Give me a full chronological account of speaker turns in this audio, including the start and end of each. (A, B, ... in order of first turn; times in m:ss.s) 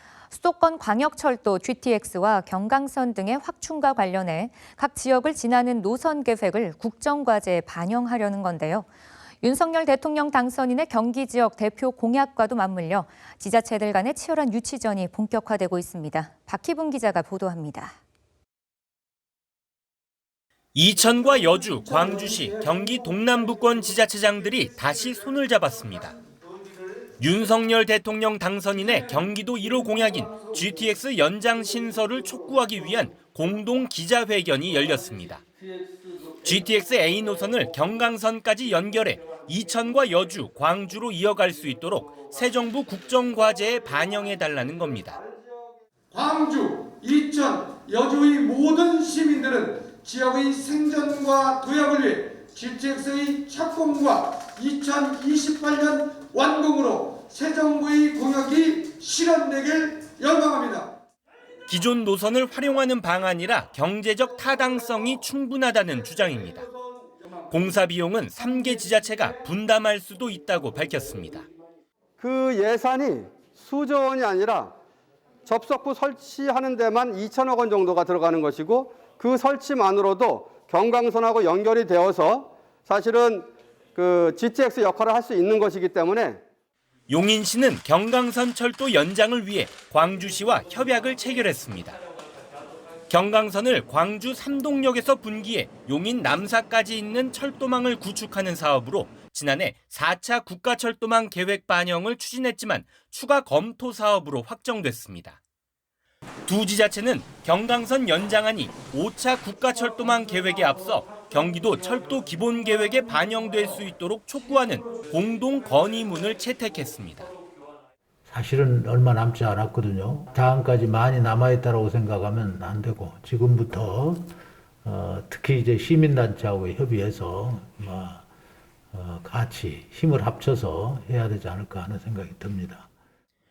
0:00.3-0:08.9 A
0:09.4-0:17.9 A
0:20.7-0:26.2 B
0:27.2-0:35.4 B
0:36.4-0:45.2 B
0:44.9-0:45.8 C
0:46.1-1:00.8 D
0:47.4-0:54.2 C
0:54.9-1:00.7 C
1:01.7-1:06.7 B
1:07.5-1:11.5 B
1:12.2-1:14.7 C
1:15.5-1:26.4 C
1:27.1-1:32.0 B
1:33.1-1:45.4 B
1:46.5-1:57.3 B
1:58.3-2:04.3 E
2:04.8-2:08.2 E
2:08.9-2:12.9 E